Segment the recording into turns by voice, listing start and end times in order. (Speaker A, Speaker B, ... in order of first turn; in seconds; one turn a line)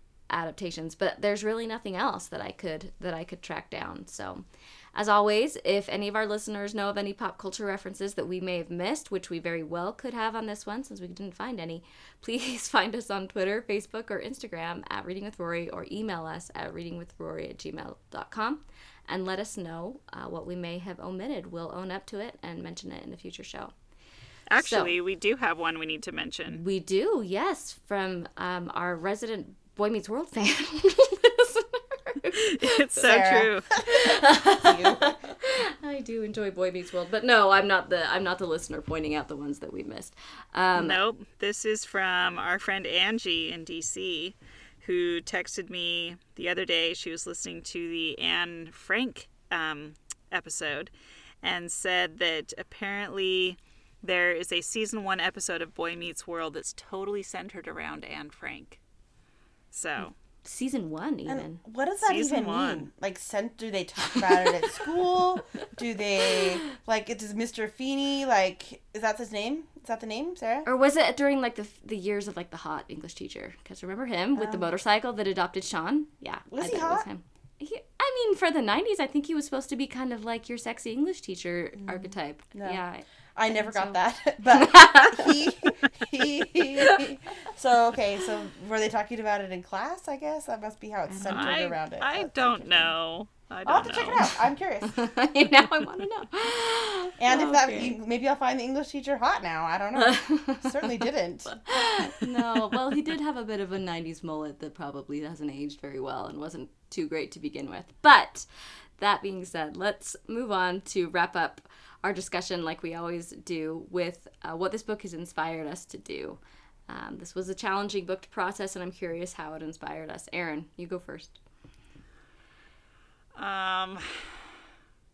Speaker A: 0.3-23.7
Speaker B: 24.5-26.6
Speaker A: 24.6-25.0
Speaker A: 26.5-32.8
Speaker B: 32.6-33.7
Speaker C: 33.0-35.3
Speaker A: 33.8-41.0
Speaker B: 40.8-50.9
Speaker B: 51.4-58.8
Speaker B: 59.7-60.1
Speaker A: 60.4-61.6
Speaker C: 61.3-70.7
Speaker B: 62.0-62.9
Speaker A: 64.2-64.5
Speaker A: 70.7-84.0
Speaker C: 74.4-74.7
Speaker C: 76.5-77.1
Speaker C: 81.8-82.8
Speaker C: 83.4-92.3
Speaker A: 84.5-85.4
Speaker A: 86.8-87.1
Speaker A: 91.1-91.6
Speaker B: 91.2-94.3
Speaker A: 92.6-92.9
Speaker C: 93.7-95.0
Speaker A: 94.8-98.0
Speaker C: 97.2-101.6
Speaker A: 100.0-121.4
Speaker B: 123.4-124.5